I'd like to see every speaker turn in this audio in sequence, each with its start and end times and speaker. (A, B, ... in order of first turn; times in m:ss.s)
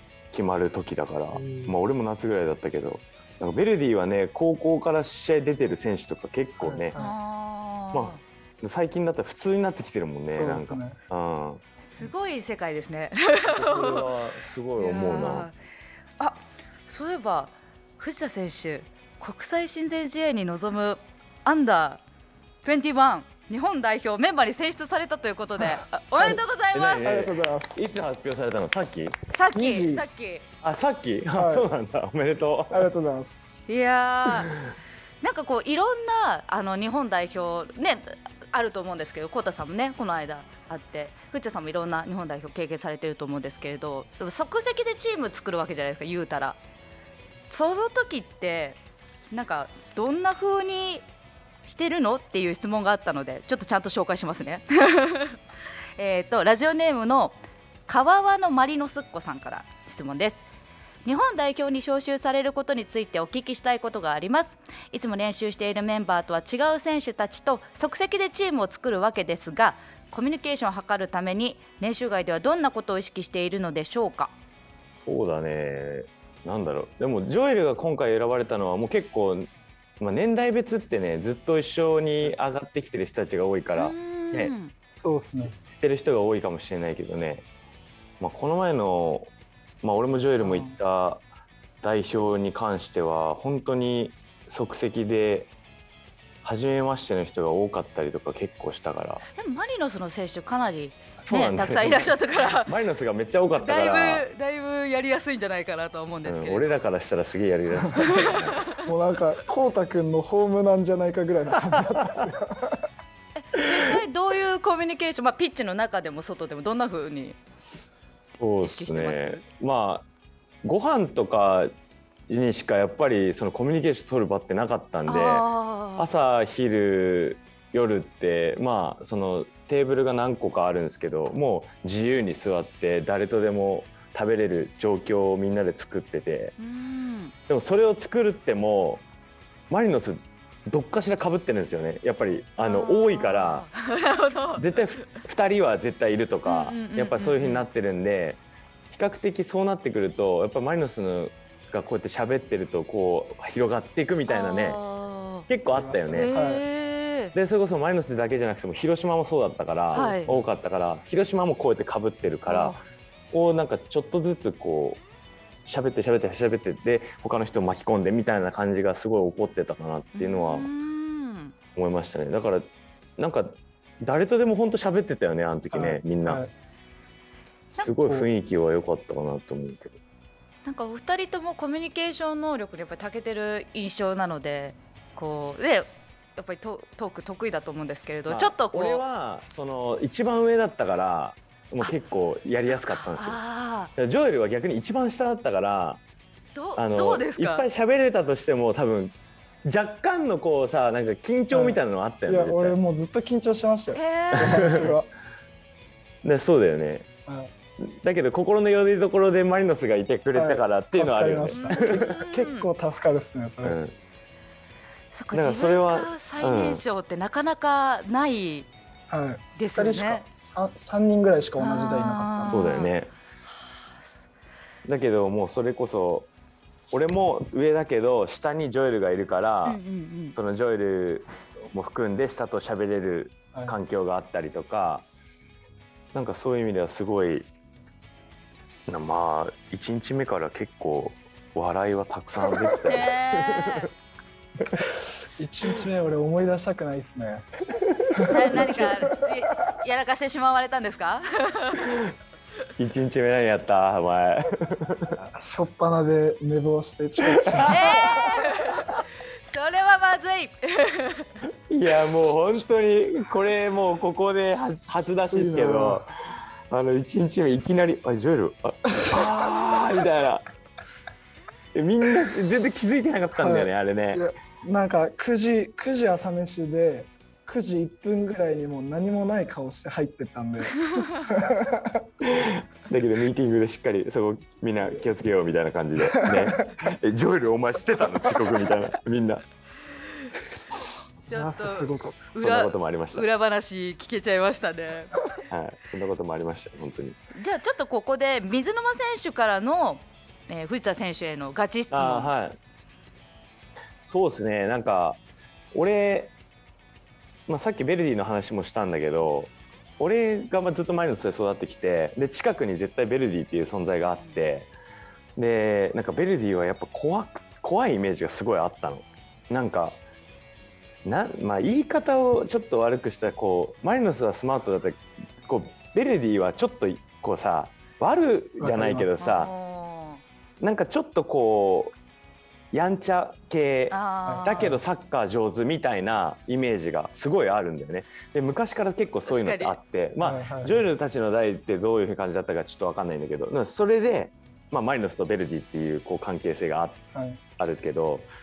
0:00.3-0:07.0 A
0:01.3-0:01.8 B
0:06.6-0:07.2 B
0:07.0-0:08.2 C
0:07.9-0:11.6 A
0:10.3-0:11.0 B
0:11.8-0:14.1 C
0:13.5-0:15.5 A
0:14.8-0:15.6 C
0:16.2-0:22.0 C
0:22.6-0:27.1 C
0:26.7-0:29.2 A
0:27.0-0:27.9 B
0:29.3-0:30.4 C
0:29.6-0:30.1 B
0:30.6-0:32.9 A
0:31.3-0:31.7 B
0:32.7-0:33.6 B
0:33.7-0:34.5 C
0:35.2-0:46.6 C
0:47.5-0:48.8 C
0:49.3-0:51.0 C
0:51.6-0:55.4 C
0:56.0-1:00.4 C
1:01.0-1:14.3 C
1:15.1-1:19.5 A
1:20.0-1:24.5 A
1:23.8-1:24.7 C
1:25.0-1:25.6 B
1:25.8-1:27.4 A
1:28.2-1:29.3 A
1:29.8-1:31.2 A
1:30.4-1:30.8 B
1:31.8-1:35.5 A
1:36.4-1:39.2 A
1:39.4-1:42.7 C
1:41.2-1:44.2 A
1:43.6-1:46.7 C
1:46.3-1:48.6 A
1:48.0-1:48.9 C
1:48.8-1:52.9 B
1:53.4-1:57.4 C
1:58.4-2:00.0 A
1:58.6-1:59.4 C
2:00.6-2:01.7 A
2:02.3-2:05.4 A
2:05.1-2:06.1 C
2:06.0-2:16.6 A
2:16.6-2:17.3 C
2:17.5-2:19.0 A
2:19.7-2:23.7 A
2:22.6-2:25.1 C
2:24.6-2:28.4 A
2:26.5-2:27.7 C
2:28.9-2:34.8 A
2:34.3-2:35.5 C
2:35.5-2:36.3 A
2:35.7-2:36.6 B
2:36.1-2:37.3 C
2:37.3-2:42.8 A
2:39.9-2:40.5 B
2:39.9-2:40.3 C
2:42.5-2:42.8 C
2:43.3-2:45.0 A
2:45.7-2:50.7 A
2:50.2-2:51.5 C
2:51.8-2:52.7 A
2:53.2-2:56.4 A
2:55.7-2:56.5 B
2:57.8-3:00.0 A
3:00.6-3:09.0 C
3:08.3-3:13.4 A
3:12.6-3:13.9 C
3:14.0-3:16.0 A
3:16.6-3:17.7 C
3:16.8-3:22.8 A
3:21.5-3:25.1 B
3:23.9-3:24.8 C
3:24.3-3:24.9 A
3:26.2-3:27.1 A
3:27.3-3:27.5 B
3:27.8-3:32.1 A
3:30.3-3:33.8 B
3:31.5-3:32.7 C
3:33.6-3:33.9 A
3:35.1-3:38.7 C
3:35.3-3:36.8 A
3:39.1-3:42.7 B
3:39.6-3:40.2 C
3:41.6-3:42.9 C
3:42.5-3:43.1 A
3:44.9-3:46.3 A
3:46.9-3:49.8 A
3:49.6-3:50.4 C
3:50.4-3:55.1 A
3:56.1-3:57.5 A
3:58.9-4:03.9 A
4:02.8-4:03.9 C
4:05.4-4:07.5 B
4:08.2-4:09.3 B
4:08.2-4:11.9 C
4:12.8-4:15.2 A
4:15.1-4:18.3 B
4:17.3-4:18.0 A
4:17.7-4:21.3 C
4:21.7-4:26.1 A
4:25.3-4:26.0 B
4:26.7-4:30.5 A
4:31.7-4:34.2 A
4:33.4-4:42.0 B
4:40.9-4:41.2 C
4:42.2-4:49.4 A
4:46.2-4:46.5 B
4:51.3-4:55.2 C
4:51.3-4:52.3 B
4:52.4-4:53.3 A
4:55.5-4:57.2 A
4:57.4-5:02.3 C
5:01.9-5:02.6 A
5:04.1-5:05.2 A
5:05.7-5:06.3 A
5:07.5-5:14.7 A
5:15.4-5:20.0 A
5:21.0-5:29.5 A
5:28.6-5:29.2 B
5:29.2-5:30.2 C
5:30.6-5:31.9 A
5:32.7-5:47.0 A
5:33.9-5:34.8 C
5:34.3-5:34.8 B
5:39.3-5:39.8 C
5:40.2-5:40.8 B
5:47.1-5:47.4 B
5:47.6-5:48.3 A